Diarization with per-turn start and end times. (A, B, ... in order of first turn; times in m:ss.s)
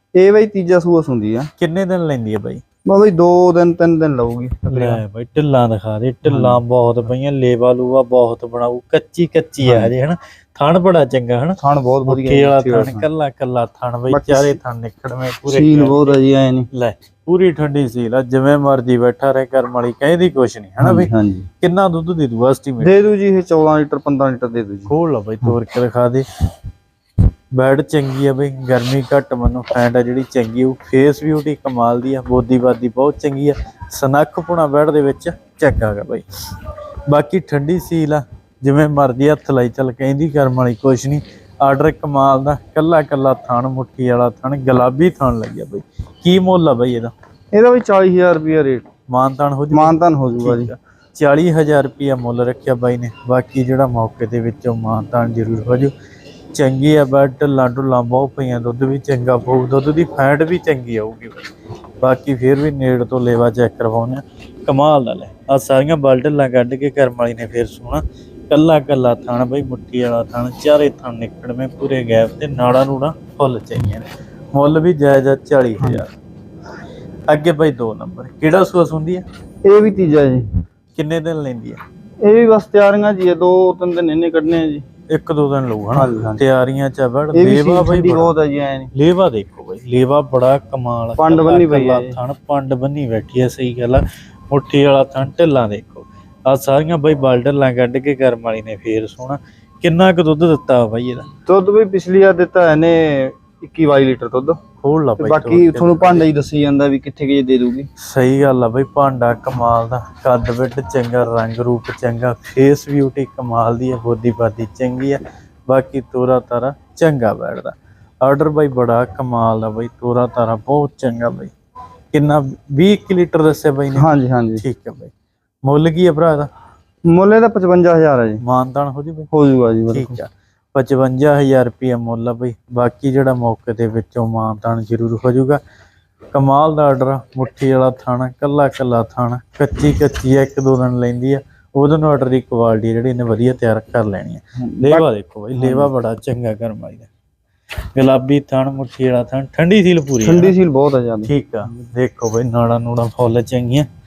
0:00.2-0:01.5 A
0:01.6-0:02.6 B
0:02.9-0:05.0 A
0:04.7-0:16.2 B
0:06.2-0:06.6 A
0:09.6-0:09.9 A
0:11.6-0:13.0 A
0:14.1-0:14.6 A
0:15.5-0:16.7 A
0:16.7-0:22.9 B
0:20.8-0:21.5 A
0:22.8-0:24.9 A
0:24.9-0:26.2 B
0:27.5-0:36.3 B
0:37.1-0:47.1 B
0:47.5-0:48.8 A
0:49.1-0:55.9 B
0:49.7-0:50.7 A
0:56.5-1:01.5 B
1:02.0-1:16.1 B
1:17.3-1:19.2 B
1:19.6-1:20.4 A
1:21.0-1:21.8 B
1:22.2-1:24.8 A
1:25.1-1:28.3 B
1:25.9-1:26.4 A
1:27.3-1:28.9 A
1:28.9-1:41.3 B
1:31.2-1:32.2 A
1:41.5-1:44.6 A
1:44.8-1:46.3 B
1:45.2-1:47.9 A
1:48.0-2:01.5 B
2:02.1-2:05.1 B
2:04.0-2:04.6 A
2:05.6-2:06.5 B
2:07.1-2:08.4 A
2:08.4-2:09.3 B
2:09.3-2:10.2 A
2:09.9-2:15.6 B
2:16.3-2:27.1 B
2:24.6-2:25.9 A
2:28.0-2:30.5 B
2:30.2-2:31.3 A
2:31.2-2:33.9 B